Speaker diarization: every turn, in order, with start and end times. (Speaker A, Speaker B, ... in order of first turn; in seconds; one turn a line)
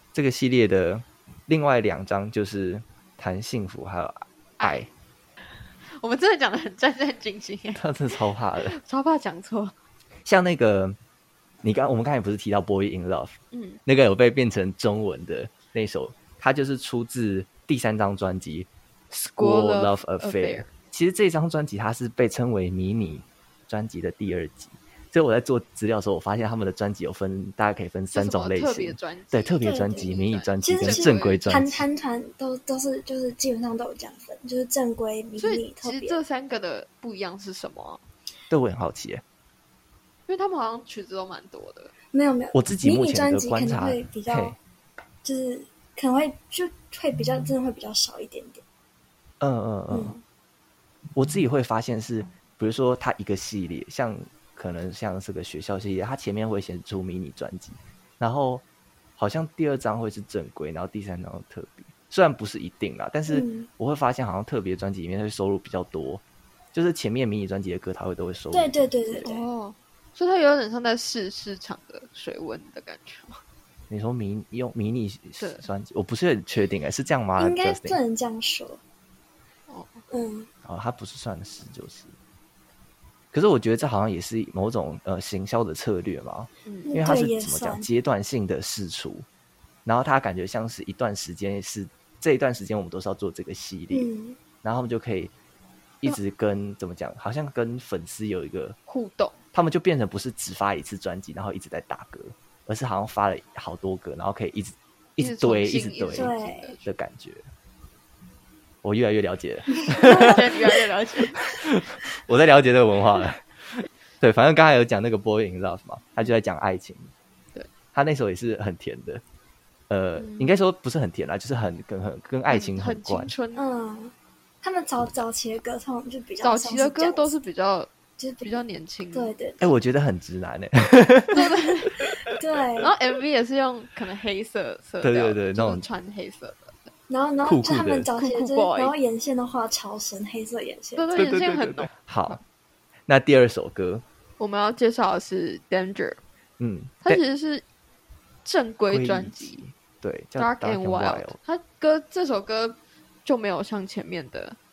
Speaker A: 0.1-4.9
Speaker B: 6.0-9.7
Speaker A: 7.8-8.8
Speaker A: 10.2-11.0
Speaker A: 11.6-31.8
Speaker B: 13.5-13.8
Speaker B: 19.4-20.7
Speaker B: 28.1-31.6
Speaker C: 29.6-36.2
Speaker B: 35.4-38.0
Speaker A: 38.5-39.2
Speaker B: 40.3-41.9
Speaker C: 42.1-44.5
Speaker A: 42.5-44.6
Speaker C: 45.2-48.6
Speaker A: 49.4-50.1
Speaker C: 49.9-50.2
Speaker A: 51.1-58.6
Speaker A: 59.2-66.2
Speaker C: 63.3-63.7
Speaker A: 66.7-68.9
Speaker C: 68.5-69.4
Speaker B: 69.2-73.4
Speaker A: 73.9-78.0
Speaker B: 75.4-75.7
Speaker C: 77.4-78.8
Speaker B: 79.7-80.0
Speaker C: 80.1-80.5
Speaker A: 80.6-82.1
Speaker A: 83.3-89.2
Speaker B: 86.7-87.0
Speaker C: 86.8-87.9
Speaker A: 89.8-94.1
Speaker C: 93.9-94.4
Speaker A: 94.6-95.3
Speaker A: 96.0-98.8
Speaker B: 98.9-99.3
Speaker A: 99.5-106.3
Speaker B: 105.2-106.9
Speaker C: 106.1-106.7
Speaker A: 106.8-107.5
Speaker A: 108.8-110.5
Speaker B: 109.9-111.5
Speaker C: 110.0-110.4
Speaker A: 111.4-117.1
Speaker A: 117.9-119.2
Speaker A: 119.9-123.3
Speaker B: 120.2-120.5
Speaker B: 122.5-123.6
Speaker C: 123.5-127.3
Speaker B: 126.4-127.9
Speaker C: 128.2-128.6
Speaker B: 128.4-129.3
Speaker C: 129.1-129.7
Speaker A: 129.6-132.0
Speaker B: 131.3-132.0
Speaker C: 132.2-132.9
Speaker B: 132.8-136.9
Speaker A: 135.0-135.8
Speaker C: 137.1-141.1
Speaker A: 137.4-138.1
Speaker B: 138.2-138.9
Speaker B: 141.0-141.9
Speaker A: 141.1-142.4
Speaker A: 143.1-144.0
Speaker B: 144.4-146.2
Speaker A: 146.6-147.2
Speaker B: 147.0-147.6
Speaker B: 148.4-149.6
Speaker A: 148.9-151.4
Speaker B: 150.4-154.6